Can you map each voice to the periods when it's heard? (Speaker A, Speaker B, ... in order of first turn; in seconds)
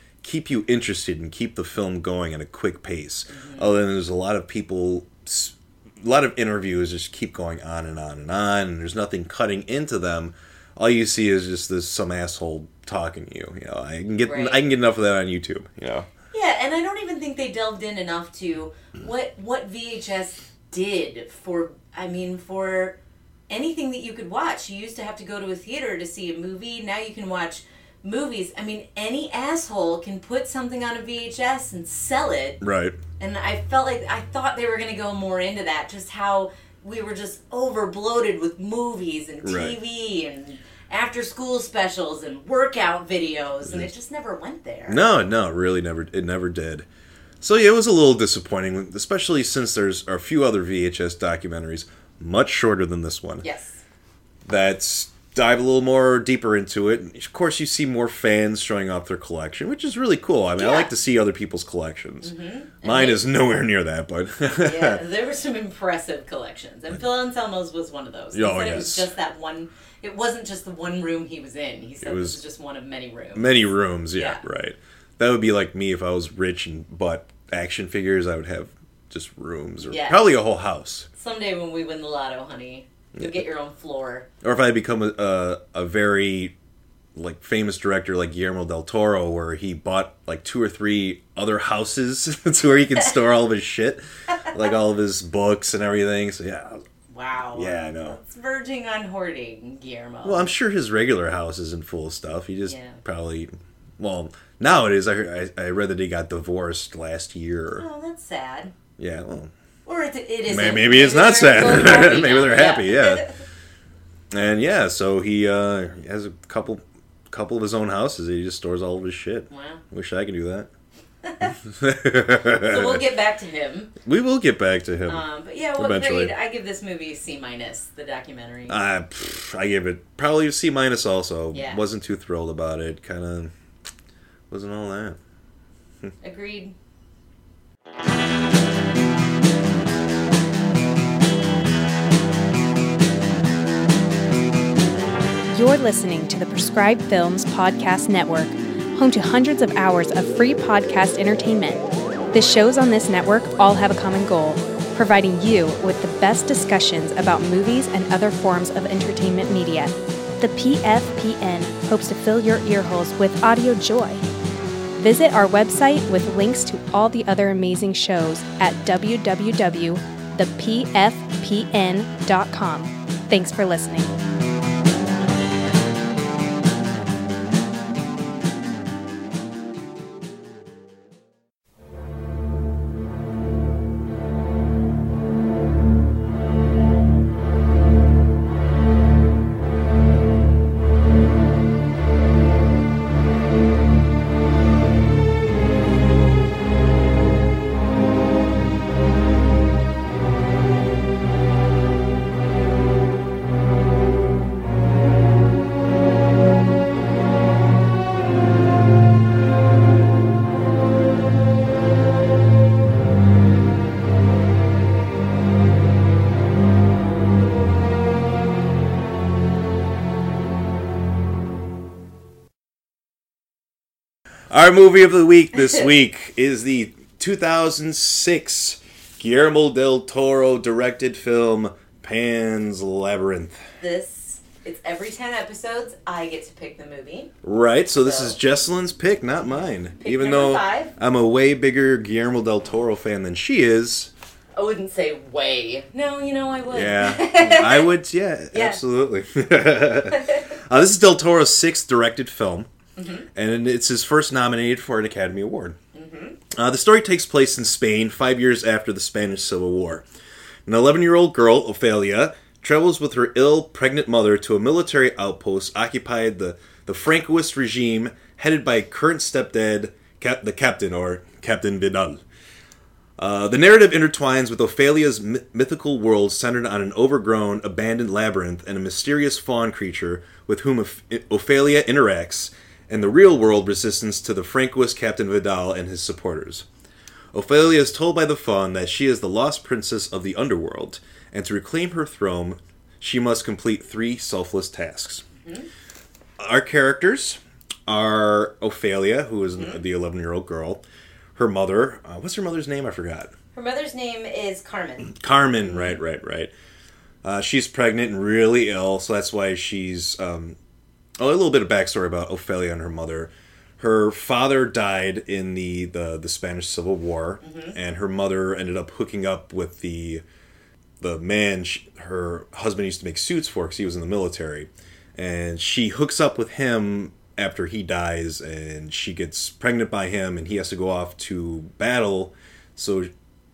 Speaker A: 0.2-16.1, 32.6-33.0, 39.4-39.8, 44.9-46.9, 47.4-53.4, 54.4-65.0, 68.3-69.1, 72.0-72.4, 73.3-81.1, 83.1-83.4, 84.4-86.5, 87.1-96.8, 97.5-98.2, 100.2-107.9, 109.0-109.5, 110.5-113.3, 114.3-120.7, 121.6-123.0, 124.0-125.2, 125.8-126.3, 128.7-133.5, 134.5-135.2, 224.5-233.6, 237.4-244.1, 246.7-252.7, 253.3-255.8, 256.5-260.0, 260.6-272.2, 273.2-286.6, 287.3-295.2, 296.4-300.8, 301.4-303.3, 305.1-306.5, 307.2-310.6, 311.2-320.2, 321.0-333.1
Speaker B: 3.3-3.7, 14.2-14.6, 16.3-23.0, 23.5-32.6, 33.2-45.0, 53.4-53.8, 60.6-60.9, 62.2-63.2, 64.6-73.6, 74.1-74.4, 79.9-80.2, 81.2-84.3, 97.1-100.5, 102.7-103.0, 107.8-108.7, 109.9-113.4, 119.5-119.8, 121.2-121.6, 122.6-124.0, 125.1-128.8, 131.5-131.8, 136.2-136.7, 233.8-237.3, 238.0-238.4, 240.0-240.9, 244.6-247.9, 248.5-248.8, 250.1-250.5, 253.0-253.3, 255.9-256.4, 295.4-295.7, 303.5-305.9, 317.4-317.8
Speaker C: 145.5-164.2, 165.0-174.1